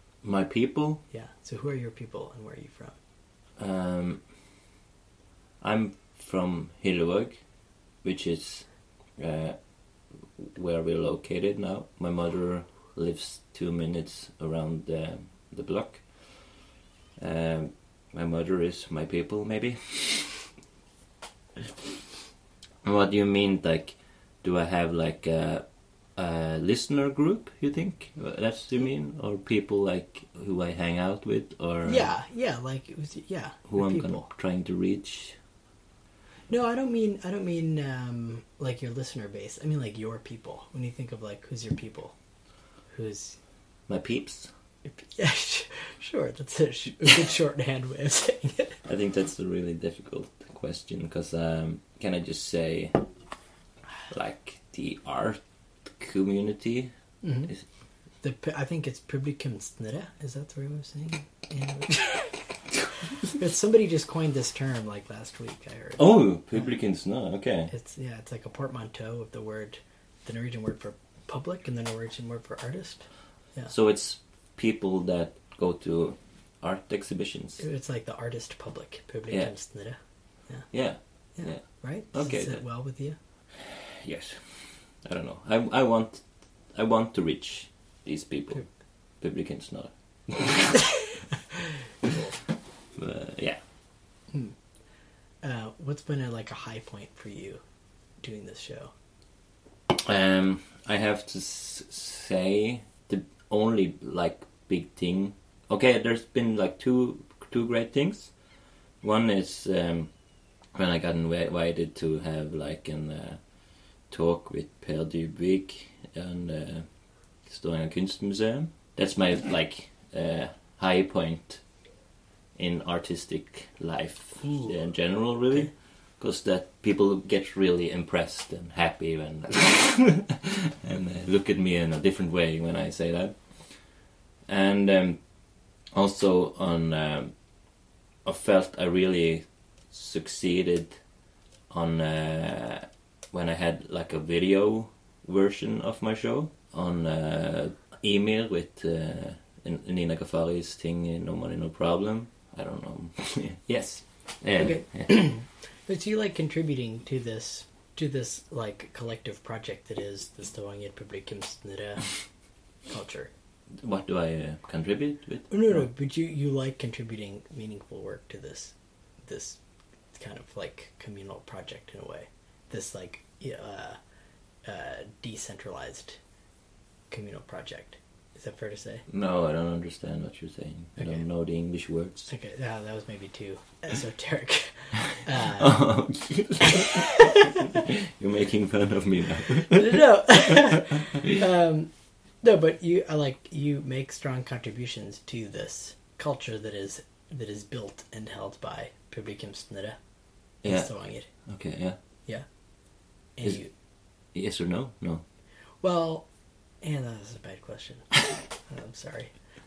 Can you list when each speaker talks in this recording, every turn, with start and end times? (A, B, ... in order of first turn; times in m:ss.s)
0:00.2-0:01.0 A
0:01.1-0:03.0 B
0:03.6-0:04.3 A
0:05.6-0:07.4 A
0:08.0-0:09.7 A
0:10.4-0:16.7 A
0:17.2-0:20.5 A
0:22.8-0:32.1 A
0:31.8-0:34.2 B
0:33.7-0:35.4 A
0:36.5-0:42.1 B
0:42.9-0:43.4 B
0:43.9-0:44.5 A
0:44.8-0:48.8 B
0:48.8-0:53.0 A
0:54.1-0:55.4 A
0:56.0-0:56.9 A
0:57.2-0:57.5 B
0:58.2-1:02.4 B
1:03.3-1:06.2 B
1:06.0-1:07.7 A
1:07.7-1:13.7 B
1:13.7-1:17.6 A
1:17.6-1:20.0 B
1:20.7-1:22.6 A
1:21.4-1:23.2 B
1:23.6-1:30.9 A
1:32.0-1:32.4 B
1:33.0-1:33.6 A
1:35.4-1:37.6 B
1:38.2-1:38.9 B
1:39.9-1:48.4 A
1:49.0-1:50.2 A
1:50.7-1:53.4 A
1:54.1-1:56.9 A
1:57.4-2:01.6 A
2:02.6-2:13.9 A
2:04.4-2:04.7 B
2:14.5-2:15.3 A
2:15.9-2:17.3 A
2:18.2-2:21.0 A
2:21.7-2:35.3 A
2:34.6-2:42.2 B
2:42.9-2:43.3 B
2:43.8-2:45.9 A
2:45.5-2:48.7 B
2:49.2-2:49.6 B
2:50.1-2:54.0 B
2:54.6-2:56.2 B
2:57.1-2:59.0 B
2:59.1-3:02.3 A
3:02.3-3:05.8 B
3:05.6-3:10.6 A
3:06.6-3:07.8 B
3:09.7-3:11.9 B
3:12.4-3:20.0 B
3:20.6-3:21.3 B
3:20.6-3:22.0 A
3:23.4-3:23.7 B
3:24.3-3:25.2 A
3:25.8-3:26.3 B
3:26.8-3:28.1 B
3:28.6-3:29.3 B